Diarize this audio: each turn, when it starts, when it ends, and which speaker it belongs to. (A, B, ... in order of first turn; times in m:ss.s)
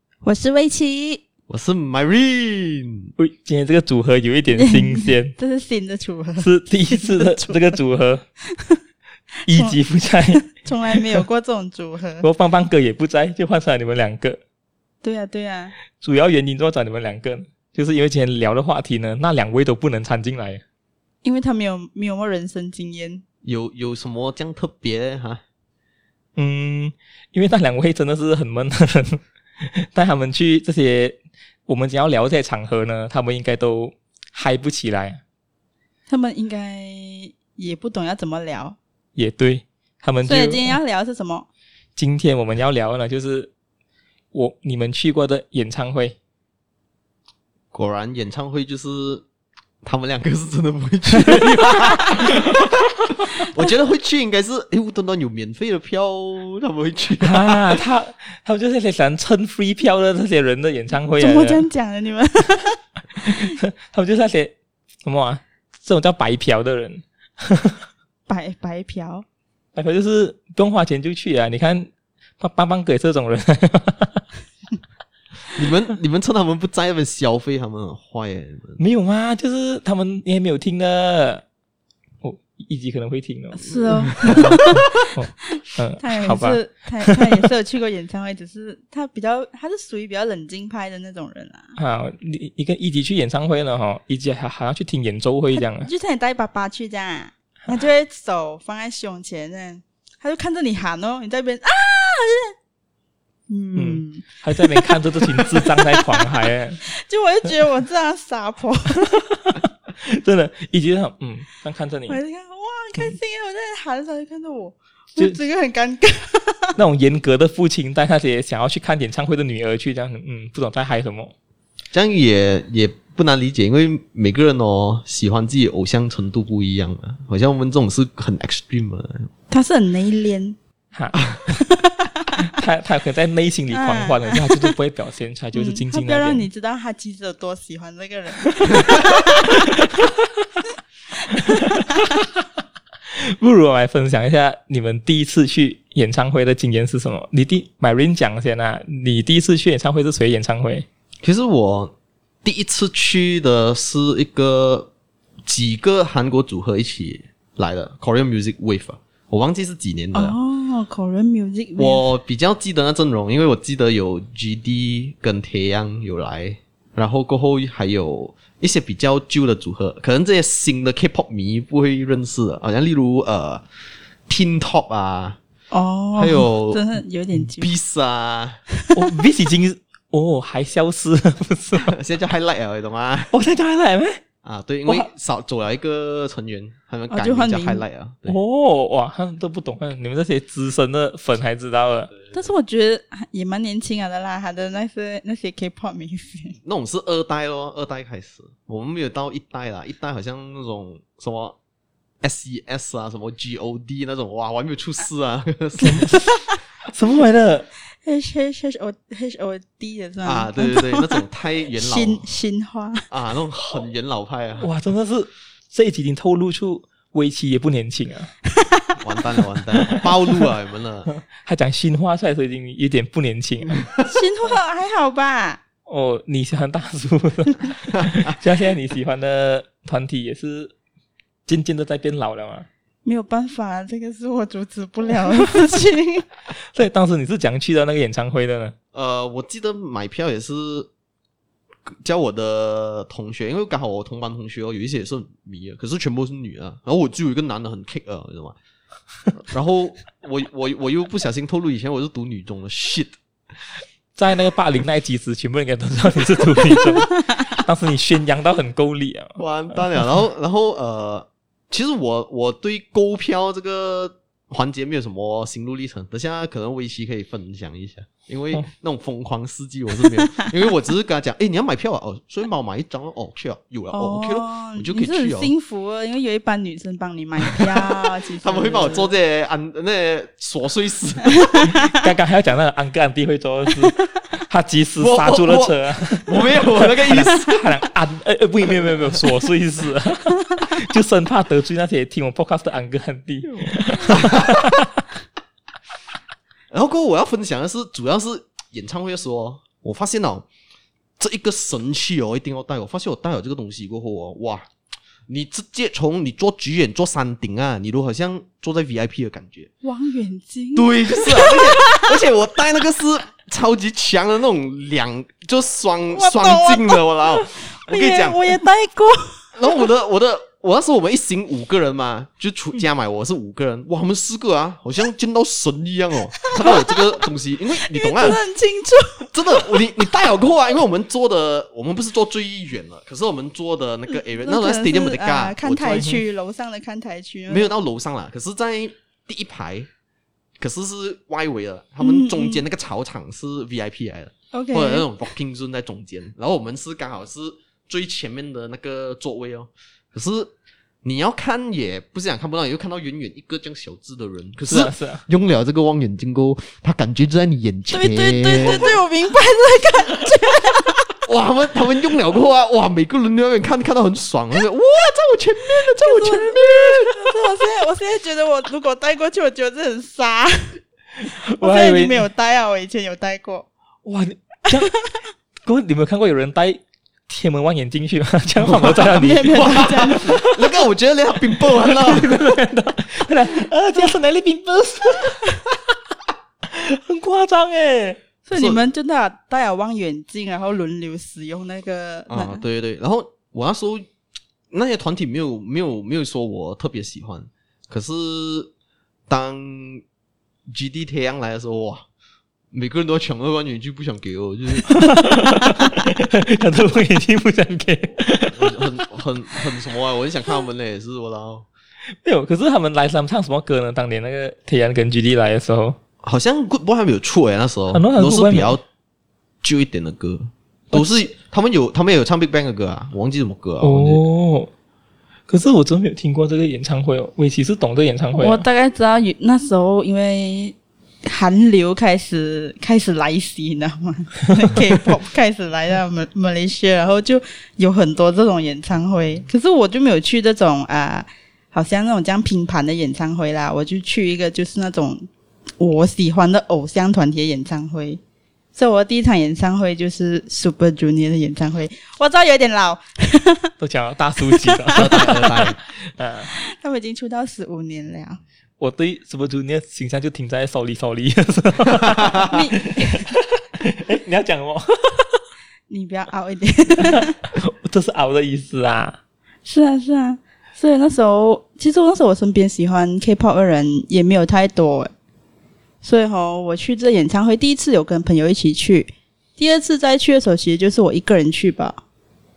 0:00.2-0:01.2 A
0:01.5-0:03.1 B
0:03.2-0:05.3 C
0:04.6-0:07.7 A
0:06.4-0:08.2 C
0:09.4-0:11.2 C
0:09.5-0:09.8 A
0:10.3-0:12.2 A
0:12.2-0:14.4 C
0:15.0-0:15.7 A
0:16.0-0:20.6 C
0:21.2-0:23.2 A
0:23.4-0:25.4 B
0:26.4-0:35.2 C
0:36.1-0:38.8 A
0:39.2-0:40.8 C
0:40.2-0:41.5 A
0:42.0-0:43.5 C
0:44.3-0:46.2 C
0:47.7-0:49.2 B
0:49.8-0:57.8 B
0:57.2-1:01.6 C
1:01.2-1:03.6 A
1:03.2-1:07.8 C
1:08.3-1:09.2 A
1:09.7-1:11.9 C
1:12.4-1:14.2 C
1:15.5-1:18.8 B
1:18.8-1:21.4 C
1:22.2-1:27.2 C
1:23.5-1:25.1 A
1:23.9-1:25.0 B
1:26.0-1:31.8 A
1:31.8-1:35.9 C
1:35.6-1:42.5 A
1:43.5-1:46.3 A
1:43.7-1:46.8 C
1:46.8-1:49.2 A
1:49.1-1:52.2 C
1:52.1-1:56.7 A
1:56.8-2:01.3 C
2:01.9-2:09.3 B
2:09.5-2:10.6 A
2:10.9-2:11.5 C
2:11.5-2:12.5 A
2:12.4-2:16.5 C
2:13.7-2:14.7 A
2:15.5-2:19.9 A
2:18.6-2:20.1 C
2:21.2-2:22.2 A
2:21.3-2:22.2 C
2:23.1-2:30.8 C
2:31.2-2:31.9 B
2:32.4-2:34.9 B
2:35.4-2:40.4 B
2:40.1-2:42.1 A
2:41.8-2:53.6 B
2:54.3-2:55.4 B
2:55.7-2:57.7 A
2:56.2-2:56.8 B
2:57.5-2:58.6 B
2:58.9-3:01.9 C
3:01.8-3:03.3 B
3:03.3-3:04.2 C
3:04.4-3:08.4 B
3:07.1-3:07.8 A
3:08.3-3:12.1 C
3:12.3-3:16.6 A
3:16.6-3:21.6 B
3:22.2-3:26.2 B
3:25.8-3:26.6 A
3:25.8-3:26.1 C
3:26.8-3:27.7 C
3:28.0-3:31.2 A
3:30.2-3:32.2 B
3:31.7-3:33.0 A
3:33.1-3:34.7 B
3:34.6-3:38.3 C
3:38.5-3:38.9 A
3:39.0-3:41.1 B
3:39.8-3:40.1 C
3:41.1-3:43.9 C
3:44.0-3:45.6 A
3:45.8-3:50.7 C
3:47.9-3:48.3 B
3:51.4-3:52.7 C
3:53.0-3:56.3 A
3:56.7-3:58.7 C
3:58.9-4:00.9 B
4:01.8-4:08.6 B
4:09.3-4:13.2 B
4:14.2-4:19.4 C
4:19.4-4:35.5 B
4:33.9-4:39.1 A
4:38.3-4:41.8 B
4:41.4-4:41.9 A
4:41.8-4:54.9 C
4:45.0-4:47.6 B
4:54.1-4:54.8 B
4:56.7-5:00.4 B
5:01.2-5:04.7 B
5:05.3-5:09.7 B
5:09.8-5:12.0 A
5:10.8-5:18.4 B
5:16.1-5:19.5 A
5:19.5-5:28.4 B
5:26.4-5:27.1 A
5:27.8-5:29.8 A
5:29.3-5:36.2 B
5:34.4-5:37.7 A
5:37.5-5:39.9 B
5:40.6-5:59.0 B
5:42.0-5:42.6 A
5:44.5-5:45.1 A
5:54.7-5:55.2 C
5:57.9-6:01.1 A
6:01.2-6:07.2 B
6:05.7-6:13.6 A
6:11.2-6:12.2 C
6:14.0-6:14.9 C
6:14.7-6:15.1 A
6:15.6-6:20.6 C
6:18.6-6:22.6 B
6:19.1-6:20.4 A
6:21.5-6:25.4 C
6:26.7-6:28.2 C
6:28.4-6:32.6 A
6:28.5-6:28.8 B
6:32.3-6:34.0 B
6:34.7-6:38.7 B
6:39.3-6:40.0 B
6:40.7-6:42.0 B
6:42.7-6:45.4 B
6:44.8-6:49.0 C
6:48.5-6:51.7 B
6:52.2-6:56.0 C
6:56.2-6:58.8 B
6:57.9-6:58.8 C
6:59.6-7:04.2 B
7:03.8-7:04.7 C
7:05.5-7:08.6 C
7:08.3-7:25.2 A
7:25.8-7:28.2 A
7:28.7-7:33.7 A
7:33.8-7:36.5 C
7:34.4-7:35.4 A
7:34.9-7:35.8 B
7:36.5-7:38.4 A
7:38.8-7:45.4 C
7:42.5-7:43.3 A
7:45.9-7:47.3 A
7:47.0-7:49.2 C
7:49.6-7:55.1 A
7:56.0-8:02.0 A